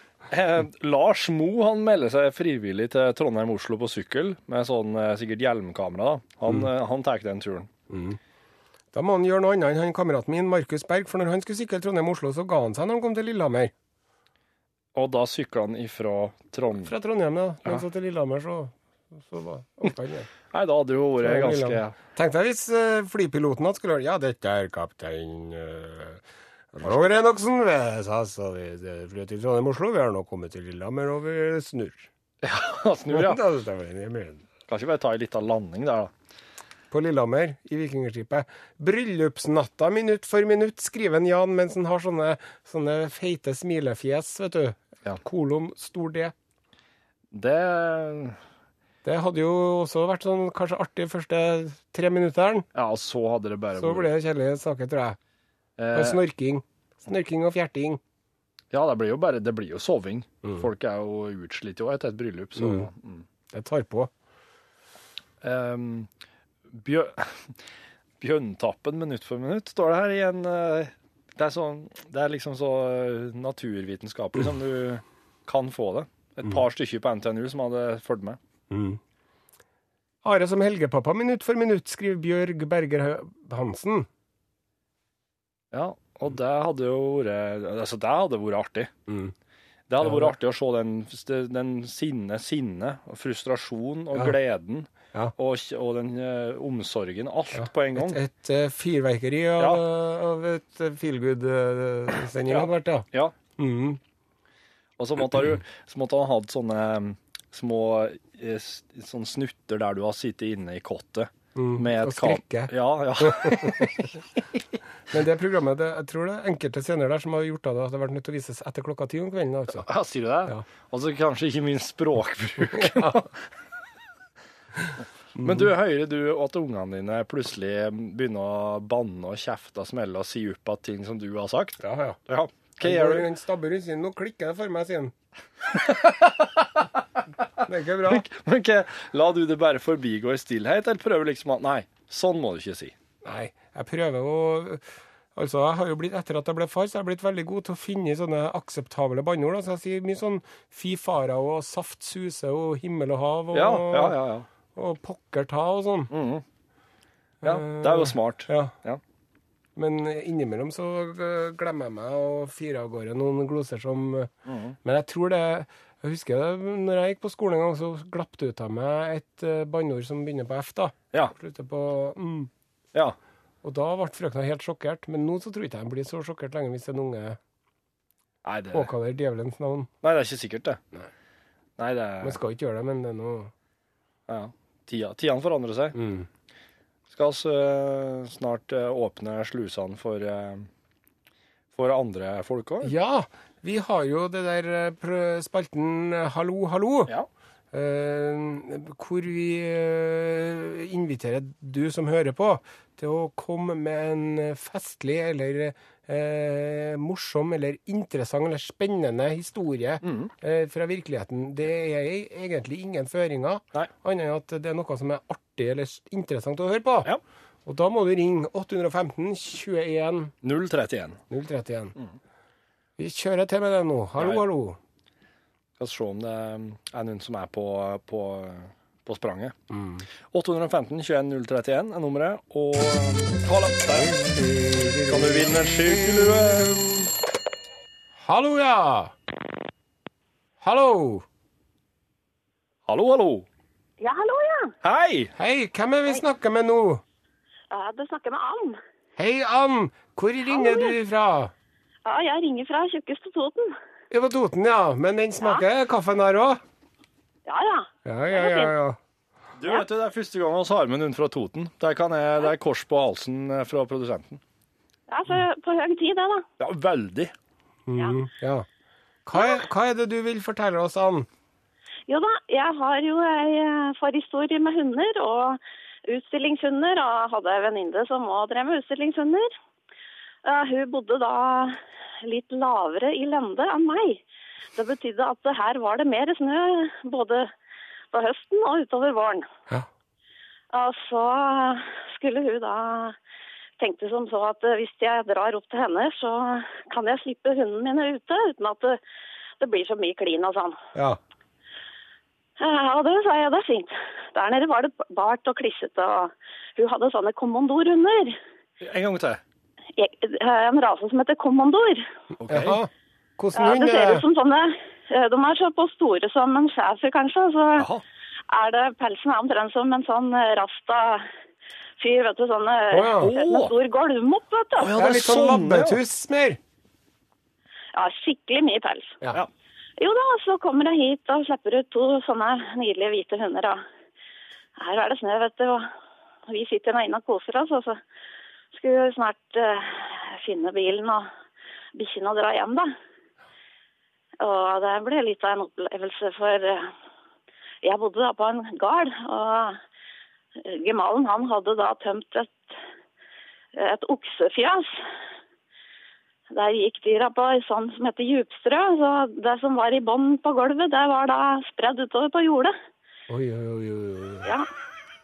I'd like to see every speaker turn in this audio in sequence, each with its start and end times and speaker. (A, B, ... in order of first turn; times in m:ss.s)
0:00.3-0:07.7 A
0:07.9-0:08.2 B
0:08.9-0:13.7 B
0:15.0-0:16.9 A
0:16.8-0:20.3 B
0:20.5-0:22.0 A
0:21.2-0:26.2 B
0:26.7-0:32.1 B
0:32.4-0:33.4 A
0:33.1-0:34.4 B
0:34.7-0:36.1 A
0:36.9-0:46.3 B
0:47.3-0:48.4 A
0:49.0-0:52.7 B
0:52.7-0:54.1 A
0:53.8-0:55.2 B
0:55.8-0:56.2 A
0:55.9-0:58.0 B
0:58.7-1:03.2 A
1:02.6-1:02.9 B
1:03.5-1:04.1 B
1:05.4-1:06.1 A
1:06.7-1:07.6 A
1:08.2-1:18.4 A
1:18.7-1:19.0 B
1:20.2-1:24.1 B
1:25.7-1:28.9 A
1:29.1-1:29.3 B
1:29.9-1:38.2 A
1:30.0-1:30.4 B
1:37.5-1:44.0 B
1:39.6-1:39.8 A
1:42.5-1:43.3 A
1:45.0-1:54.6 A
1:51.6-1:54.0 B
1:55.1-1:59.9 B
1:59.7-2:03.4 A
2:02.7-2:03.2 B
2:05.4-2:05.7 B
2:05.4-2:13.3 A
2:11.8-2:12.2 B
2:12.8-2:15.1 B
2:15.7-2:17.0 A
2:17.6-2:18.3 B
2:18.1-2:23.0 A
2:23.2-2:24.8 B
2:25.4-2:34.2 B
2:33.5-2:34.5 A
2:34.7-2:36.1 B
2:36.1-2:36.4 A
2:37.4-2:38.7 B
2:37.4-2:39.0 A
2:39.8-2:44.3 B
2:44.5-2:44.8 A
2:44.8-2:52.5 B
2:53.6-2:57.4 B
2:58.4-2:58.9 A
2:58.7-2:59.9 B
3:00.0-3:00.8 A
3:01.8-3:02.4 A
3:02.2-3:03.5 B
3:04.3-3:06.0 A
3:05.9-3:06.3 B
3:07.1-3:10.7 A
3:11.8-3:12.9 A
3:12.8-3:17.1 B
3:17.7-3:37.1 B
3:30.0-3:30.3 A
3:37.7-3:40.3 B
3:40.4-3:41.2 A
3:41.3-3:42.0 B
3:43.0-3:44.8 B
3:44.2-3:44.4 A
3:45.8-3:49.6 A
3:49.7-3:50.1 B
3:50.3-3:54.3 A
3:54.4-3:55.4 B
3:55.0-3:56.9 A
3:58.2-3:59.1 B
4:00.6-4:01.2 B
4:02.9-4:03.5 A
4:04.0-4:04.7 C
4:04.8-4:05.3 A
4:05.4-4:07.0 B
4:07.7-4:08.8 C
4:09.2-4:11.5 B
4:10.5-4:11.0 C
4:12.0-4:13.7 C
4:14.1-4:16.6 B
4:17.5-4:18.7 C
4:18.0-4:19.0 B
4:19.6-4:24.4 A
4:25.1-4:26.5 C
4:26.6-4:27.3 A
4:27.9-4:28.7 B
4:29.3-4:31.3 B
4:29.4-4:29.6 C
4:32.1-4:39.5 C
4:40.4-4:44.2 C
4:44.8-4:47.5 C
4:48.1-4:49.5 C
4:50.7-4:53.2 C
4:53.8-4:59.0 C
4:59.6-5:00.8 C
5:02.6-5:08.4 C
5:08.8-5:09.4 A
5:10.0-5:12.1 C
5:12.4-5:12.8 A
5:12.5-5:14.2 B
5:13.6-5:17.9 C
5:17.8-5:18.0 A
5:18.5-5:21.3 C
5:22.0-5:24.9 C
5:22.9-5:23.3 B
5:23.2-5:23.8 A
5:24.8-5:26.0 A
5:24.9-5:26.6 B
5:28.0-5:29.2 C
5:30.0-5:33.8 C
5:34.8-5:35.9 C
5:36.5-5:38.0 C
5:38.7-5:41.3 C
5:42.0-5:42.9 C
5:44.4-5:46.9 C
5:47.8-5:49.8 C
5:50.7-5:52.6 C
5:53.8-5:55.0 C
5:56.5-6:02.8 C
6:03.3-6:04.5 B